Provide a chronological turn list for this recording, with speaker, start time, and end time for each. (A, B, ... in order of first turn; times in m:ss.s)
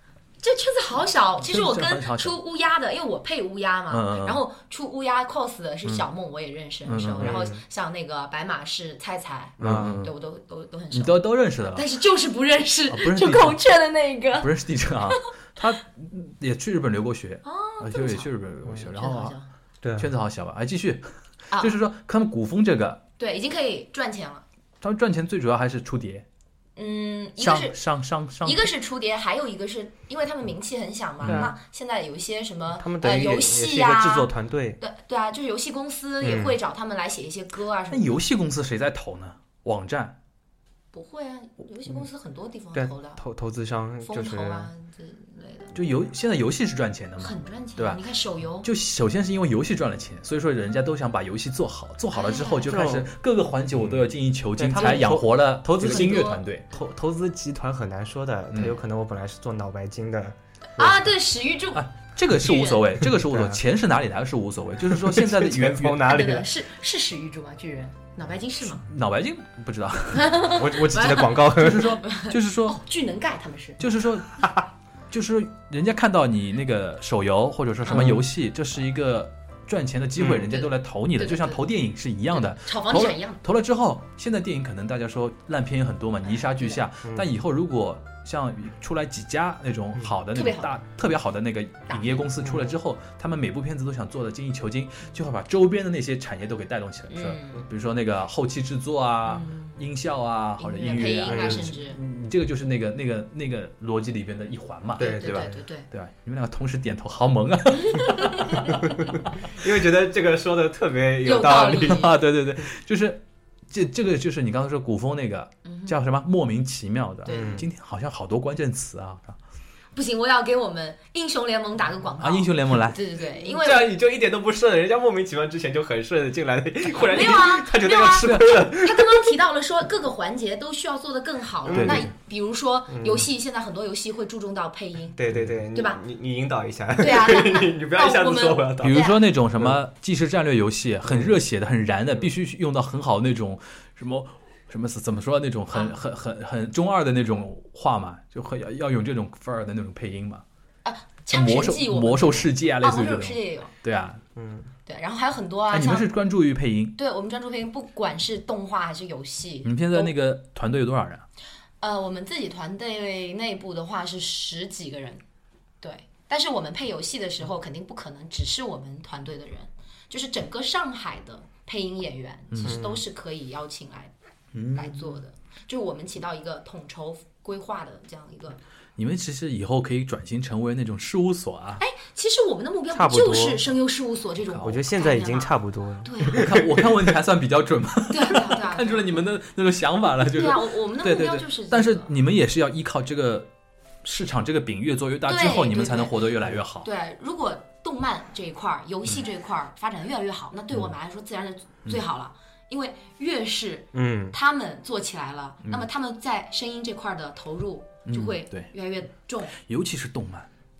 0:00.4-0:14.5 A
0:01.4-0:02.4 B
0:03.9-0:04.4 B
0:06.9-0:07.4 B
0:07.2-0:07.6 C
0:09.6-0:10.0 C
0:09.6-0:10.1 B
0:10.9-0:11.8 B
0:12.9-0:13.6 B
0:14.4-0:19.4 B
0:15.0-0:15.3 A
0:17.4-0:19.5 A
0:19.8-0:20.1 C
0:20.0-0:21.1 B
0:21.5-0:21.8 A
0:21.6-0:23.0 B
0:23.2-0:24.4 A
0:24.8-0:26.3 B
0:26.8-0:27.8 A
0:27.4-0:28.7 B
0:28.4-0:38.2 A
0:31.2-0:31.5 B
0:31.2-0:31.5 C
0:32.8-0:34.8 C
0:36.2-0:36.6 C
0:37.9-0:40.2 B
0:40.9-0:43.2 A
0:42.7-0:44.7 C
0:44.0-0:45.9 A
0:45.7-0:48.0 B
0:47.2-0:48.7 A
0:48.6-0:56.7 B
0:52.1-0:52.7 A
0:52.7-0:53.1 C
0:53.8-0:54.0 C
0:54.6-1:01.0 C
0:54.8-0:55.0 A
0:55.8-0:56.4 A
0:58.5-0:58.8 B
1:00.8-1:01.8 A
1:01.7-1:06.0 B
1:02.4-1:02.8 A
1:03.1-1:03.6 C
1:04.8-1:06.5 C
1:06.0-1:08.8 A
1:08.7-1:10.5 B
1:10.1-1:13.8 A
1:10.4-1:12.0 C
1:11.6-1:12.8 B
1:13.8-1:14.4 B
1:14.4-1:14.6 C
1:15.1-1:48.8 B
1:17.9-1:18.2 C
1:20.2-1:20.5 C
1:20.5-1:21.6 A
1:22.3-1:23.4 A
1:30.3-1:30.8 A
1:31.9-1:32.2 A
1:32.4-1:32.7 C
1:37.1-1:37.7 A
1:39.3-1:39.8 A
1:40.6-1:42.0 A
1:41.3-1:41.7 C
1:45.0-1:45.6 C
1:45.0-1:45.9 A
1:47.8-1:48.9 A
1:49.5-1:52.1 C
1:51.2-1:52.2 A
1:51.7-1:59.4 B
1:55.6-1:56.0 A
1:57.2-1:57.6 A
1:57.3-1:57.7 C
2:00.0-2:03.9 A
2:02.2-2:03.0 B
2:03.2-2:09.3 C
2:06.9-2:15.2 A
2:08.2-2:08.6 B
2:11.7-2:12.1 C
2:11.7-2:12.1 B
2:12.9-2:13.3 C
2:15.2-2:19.1 C
2:15.7-2:16.0 A
2:17.0-2:19.2 A
2:18.8-2:30.4 B
2:21.1-2:21.4 C
2:30.8-2:33.7 A
2:31.3-2:34.2 B
2:34.4-2:34.7 C
2:34.9-2:36.1 A
2:35.7-2:37.0 B
2:37.0-2:40.1 A
2:39.6-2:41.2 B
2:41.8-2:45.2 A
2:45.8-2:54.1 A
2:52.5-2:52.8 B
2:52.6-2:53.0 C
2:54.5-2:55.2 B
2:54.7-2:58.6 A
2:59.0-3:01.8 B
3:01.8-3:05.5 A
3:02.9-3:03.6 C
3:04.5-3:04.8 B
3:04.6-3:07.1 C
3:06.0-3:06.5 A
3:06.3-3:13.5 B
3:08.1-3:09.1 A
3:10.3-3:12.1 A
3:14.0-3:16.9 B
3:15.3-3:16.3 A
3:16.8-3:29.6 A
3:23.9-3:24.4 C
3:28.1-3:28.7 B
3:29.6-3:30.5 B